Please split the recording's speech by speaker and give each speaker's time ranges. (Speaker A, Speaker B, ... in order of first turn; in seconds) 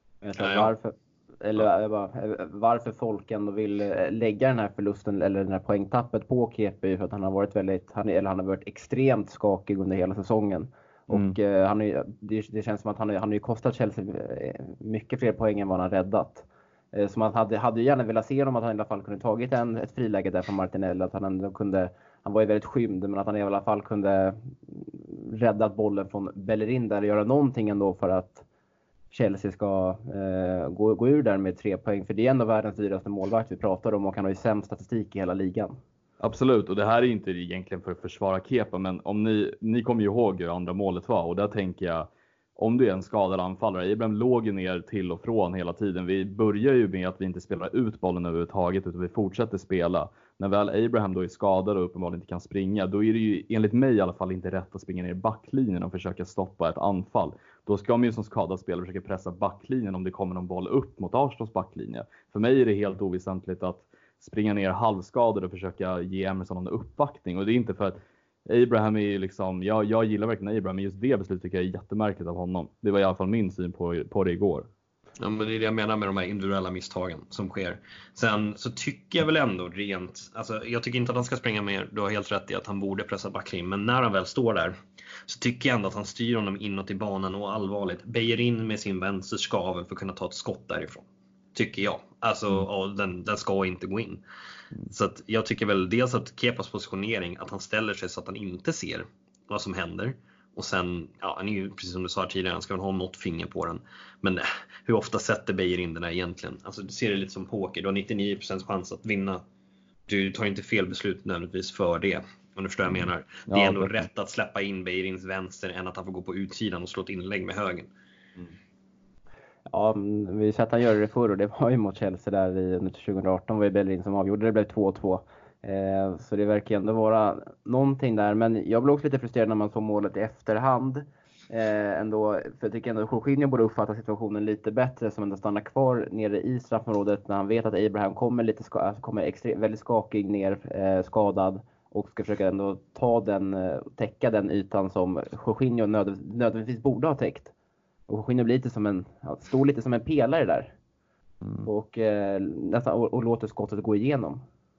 Speaker A: 0.2-28.4, 29.1-35.7, 119.7-147.5, 148.1-150.7, 151.6-154.4
Speaker B: 0.4-0.7, 75.2-84.7, 85.2-94.2, 94.9-109.4, 110.1-117.9
Speaker C: 11.1-11.4, 36.2-42.1, 42.6-68.0, 68.5-74.7, 113.5-114.1